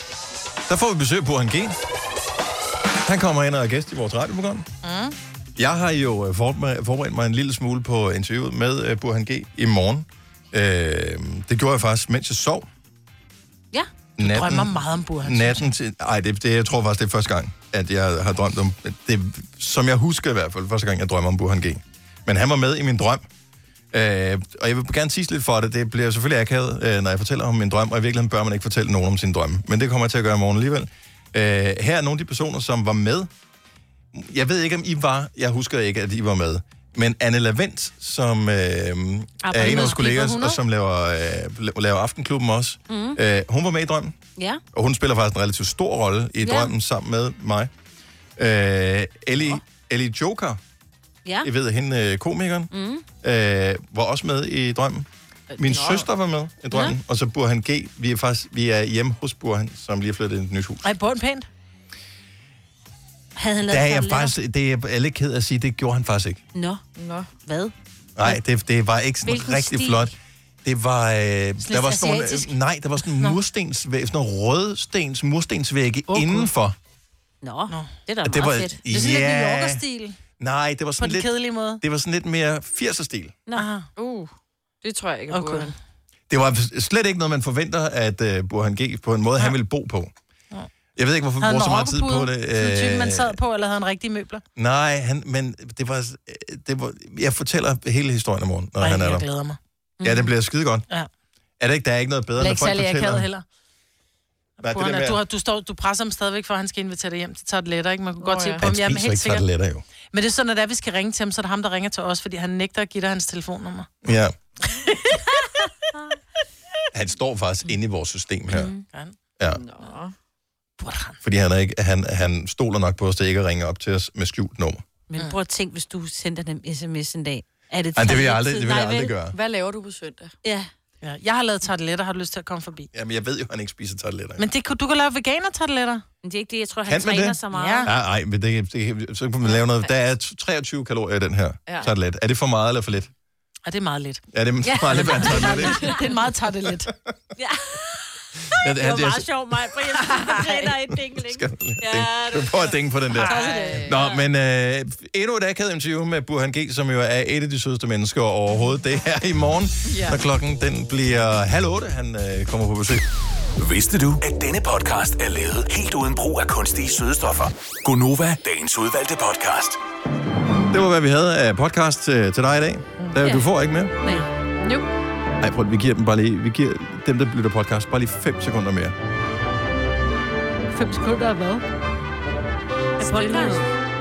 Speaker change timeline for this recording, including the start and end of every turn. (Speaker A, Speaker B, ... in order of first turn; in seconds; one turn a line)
Speaker A: 0.7-1.8
Speaker A: 3.0-4.7
Speaker B: 4.8-5.2
Speaker A: 5.6-12.7
Speaker A: 14.2-23.2
Speaker B: 14.2-15.7
Speaker A: 23.9-33.3
Speaker A: 34.1-44.2
Speaker B: 39.5-40.6
Speaker C: 39.5-40.0
Speaker C: 42.9-43.2
Speaker A: 44.7-47.7
Speaker C: 46.4-46.7
Speaker A: 48.4-50.6
Speaker A: 51.4-52.7
Speaker C: 52.7-53.0
Speaker A: 53.2-60.9
Speaker B: 60.8-61.5
Speaker C: 63.4-64.3
Speaker A: 63.6-66.4
Speaker C: 66.5-66.8
Speaker D: 67.0-67.3
Speaker C: 67.4-68.4
Speaker A: 68.2-76.8
Speaker C: 69.2-70.1
Speaker B: 71.6-73.4
Speaker B: 76.1-76.5
Speaker C: 77.4-78.8
Speaker A: 78.2-79.8
Speaker B: 78.9-80.2
Speaker A: 80.4-83.3
Speaker B: 81.0-81.8
Speaker B: 83.5-83.9
Speaker D: 84.0-85.8
Speaker B: 85.3-85.7
Speaker A: 86.3-90.1
Speaker A: 91.0-93.4
Speaker B: 91.4-94.4
Speaker A: 94.6-99.2
Speaker B: 98.8-99.6
Speaker C: 100.0-100.3
Speaker A: 100.0-100.8
Speaker A: 101.6-103.3
Speaker B: 102.4-103.4
Speaker A: 104.6-105.2
Speaker B: 104.6-109.5
Speaker D: 108.2-108.6
Speaker A: 108.6-109.8
Speaker B: 110.1-113.9
Speaker A: 114.0-114.3
Speaker A: 116.9-118.7
Speaker C: 118.5-118.8
Speaker B: 118.5-119.2
Speaker D: 119.4-120.2
Speaker B: 120.8-121.2
Speaker A: 121.2-124.8
Speaker C: 125.1-129.1
Speaker A: 128.0-129.4
Speaker D: 129.3-130.3
Speaker C: 130.4-130.7
Speaker B: 131.0-132.9
Speaker A: 132.9-134.5
Speaker B: 134.4-136.0
Speaker C: 136.2-137.9
Speaker A: 136.9-143.1
Speaker B: 137.5-137.9
Speaker B: 143.7-146.9
Speaker A: 144.3-145.9
Speaker D: 145.6-146.1
Speaker C: 147.3-147.9
Speaker A: 148.6-149.3
Speaker C: 148.8-152.8
Speaker B: 148.8-150.8
Speaker A: 151.1-163.0
Speaker B: 153.1-153.6
Speaker C: 153.3-154.2
Speaker D: 153.3-154.0
Speaker D: 159.9-160.2
Speaker E: 163.6-169.8
Speaker A: 170.7-173.9
Speaker D: 174.1-174.9
Speaker A: 175.4-178.9
Speaker B: 180.7-181.6
Speaker D: 183.0-183.7
Speaker C: 183.0-183.7